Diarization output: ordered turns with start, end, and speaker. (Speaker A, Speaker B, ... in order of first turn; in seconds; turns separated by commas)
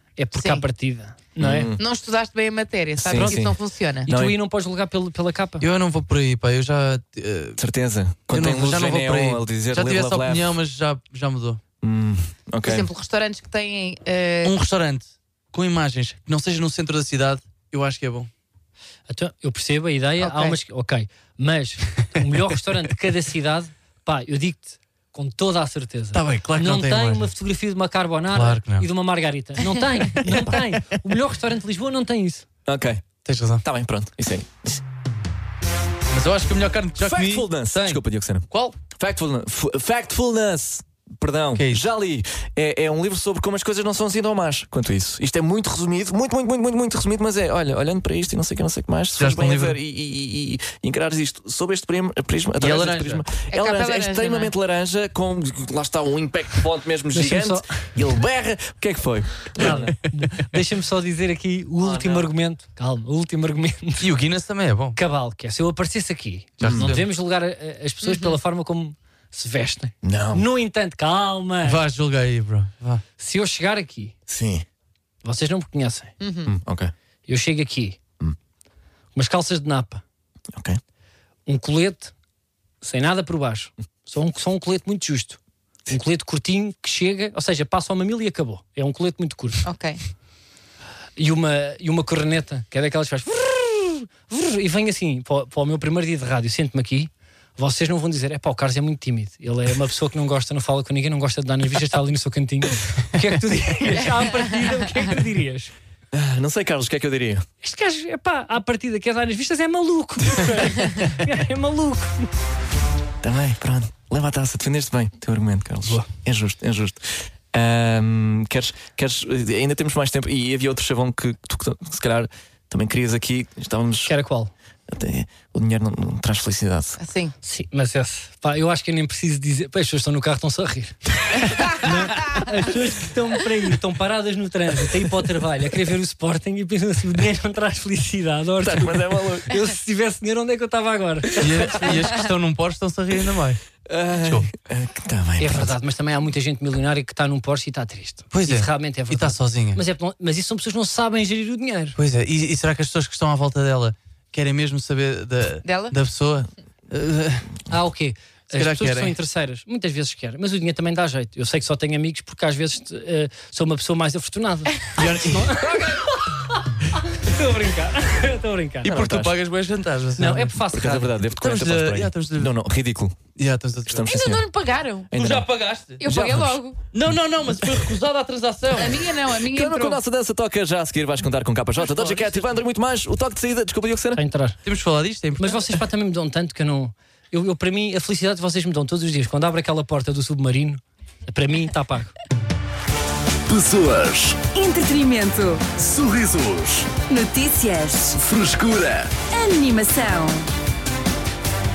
Speaker A: 0.2-1.7, Speaker B: 0.4-0.6, Speaker C: 1.4-1.8, Speaker B: 1.8-4.1, Speaker C: 3.0-3.6, Speaker A: 3.1-3.5, Speaker A: 4.1-5.7, Speaker C: 4.1-4.4, Speaker D: 5.6-7.6, Speaker C: 7.6-10.6, Speaker D: 8.3-11.6, Speaker C: 11.8-12.9, Speaker B: 12.7-14.6, Speaker D: 14.4-18.3, Speaker A: 19.1-32.5, Speaker B: 20.2-20.6, Speaker D: 26.1-27.3, Speaker D: 28.3-28.9, Speaker C: 30.3-30.6, Speaker C: 32.7-33.0, Speaker D: 33.2-33.6, Speaker C: 33.6-34.8, Speaker D: 36.1-38.8, Speaker C: 37.0-60.0, Speaker D: 41.6-41.9, Speaker D: 49.2-49.8, Speaker D: 52.6-53.2, Speaker B: 53.5-54.5, Speaker A: 57.1-57.9, Speaker A: 59.6-64.1, Speaker D: 59.6-59.9, Speaker C: 61.8-62.3, Speaker D: 64.0-65.0, Speaker A: 65.0-71.8, Speaker D: 66.6-67.1, Speaker C: 66.6-66.9, Speaker B: 68.0-68.4, Speaker C: 70.0-70.5, Speaker D: 71.6-73.0, Speaker A: 73.2-74.2, Speaker C: 74.3-74.7, Speaker A: 75.2-76.1, Speaker B: 76.2-76.5, Speaker C: 76.5-76.9, Speaker A: 77.3-78.0, Speaker A: 79.2-80.0, Speaker C: 80.5-80.8, Speaker A: 81.5-82.1, Speaker A: 82.8-89.6, Speaker B: 89.7-90.0, Speaker A: 91.2-105.7, Speaker C: 106.1-107.5, Speaker A: 107.6-112.3, Speaker C: 113.2-124.1, Speaker A: 124.1-124.5, Speaker C: 124.9-127.0, Speaker B: 127.0-127.3, Speaker A: 127.4-142.2, Speaker C: 138.6-139.5, Speaker D: 141.4-143.6, Speaker C: 143.8-145.8, Speaker D: 144.2-144.5, Speaker A: 145.4-152.0, Speaker D: 148.3-149.8, Speaker D: 152.0-157.6, Speaker B: 155.6-155.9, Speaker A: 157.7-168.9, Speaker D: 158.5-159.2, Speaker D: 165.0-165.7, Speaker C: 165.4-166.0, Speaker C: 168.8-169.3, Speaker D: 168.8-170.8, Speaker A: 170.2-171.1, Speaker C: 170.7-173.2, Speaker D: 171.4-172.6, Speaker D: 173.4-174.1, Speaker C: 173.9-174.4, Speaker B: 174.1-175.1, Speaker C: 175.1-175.5, Speaker D: 175.1-176.0, Speaker C: 176.0-176.6, Speaker B: 176.0-176.8, Speaker D: 176.9-179.1, Speaker B: 178.8-180.0, Speaker C: 179.5-184.2, Speaker D: 181.8-182.6, Speaker A: 184.2-184.6, Speaker D: 184.7-185.7, Speaker A: 185.4-192.1, Speaker E: 193.5-194.4, Speaker F: 194.5-195.7, Speaker E: 195.8-196.9, Speaker F: 197.1-198.2, Speaker E: 198.2-199.1, Speaker F: 199.3-200.5